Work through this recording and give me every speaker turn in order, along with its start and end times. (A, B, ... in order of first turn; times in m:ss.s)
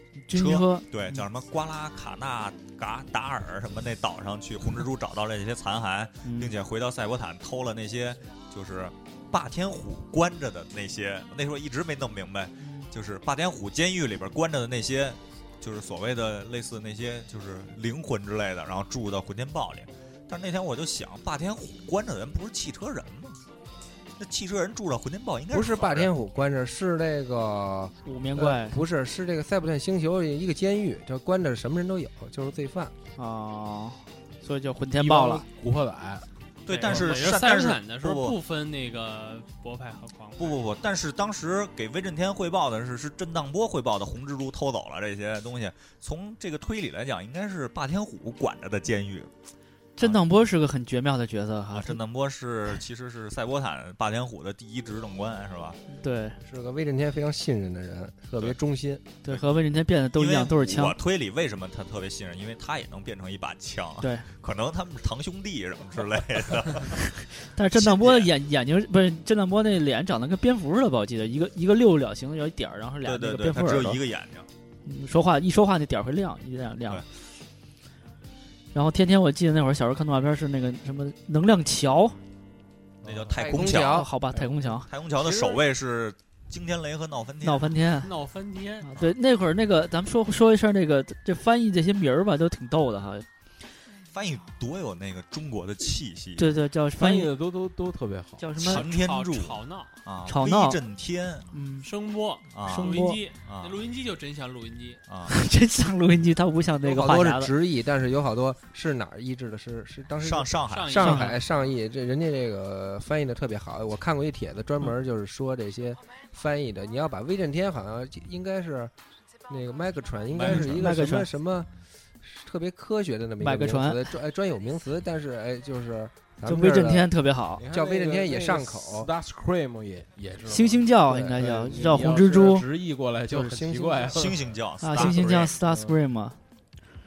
0:00.3-0:01.3 A
0:00.3-0:23.4 B
0:06.2-0:06.5 A
0:12.6-0:12.9 A
0:24.2-0:26.1 B
0:25.5-0:33.0 C
0:28.0-0:28.8 A
0:33.2-0:35.4 A
0:35.0-0:36.3 D
0:36.6-0:38.4 B
0:36.7-0:40.6 E
0:40.4-0:49.3 B
0:50.0-0:52.0 A
0:51.7-0:55.8 B
0:55.9-0:56.4 A
0:56.4-0:59.1 C
0:59.2-1:01.0 A
1:00.2-1:07.0 B
1:04.0-1:04.3 A
1:07.4-1:14.0 A
1:07.7-1:08.3 B
1:13.0-1:14.5 B
1:14.8-1:17.0 A
1:18.7-1:22.2 A
1:23.0-1:23.6 D
1:23.0-1:24.1 B
1:23.4-1:24.1 C
1:23.7-1:24.9 A
1:24.9-1:27.8 B
1:25.2-1:25.6 C
1:27.4-1:28.1 A
1:28.0-1:28.9 E
1:28.8-1:33.3 A
1:34.1-1:36.6 B
1:36.4-1:37.3 A
1:37.0-1:38.5 D
1:38.4-1:38.9 A
1:38.6-1:41.5 B
1:38.7-1:40.0 E
1:40.3-1:40.8 A
1:41.5-1:41.9 A
1:41.8-1:45.0 E
1:42.5-1:43.8 B
1:42.6-1:43.2 A
1:45.1-1:45.4 B
1:45.3-1:47.5 A
1:46.8-1:58.9 C
1:50.2-1:51.2 B
1:50.7-1:51.5 E
1:51.0-1:51.4 A
1:59.5-2:07.1 C
2:00.3-2:00.8 E
2:00.4-2:01.3 A
2:03.4-2:04.1 A
2:06.4-2:07.7 A
2:07.6-2:14.5 D
2:07.7-2:09.1 C
2:10.5-2:12.7 A
2:11.1-2:11.4 C
2:13.3-2:14.3 C
2:14.1-2:15.6 B
2:14.8-2:16.4 A
2:15.6-2:16.0 D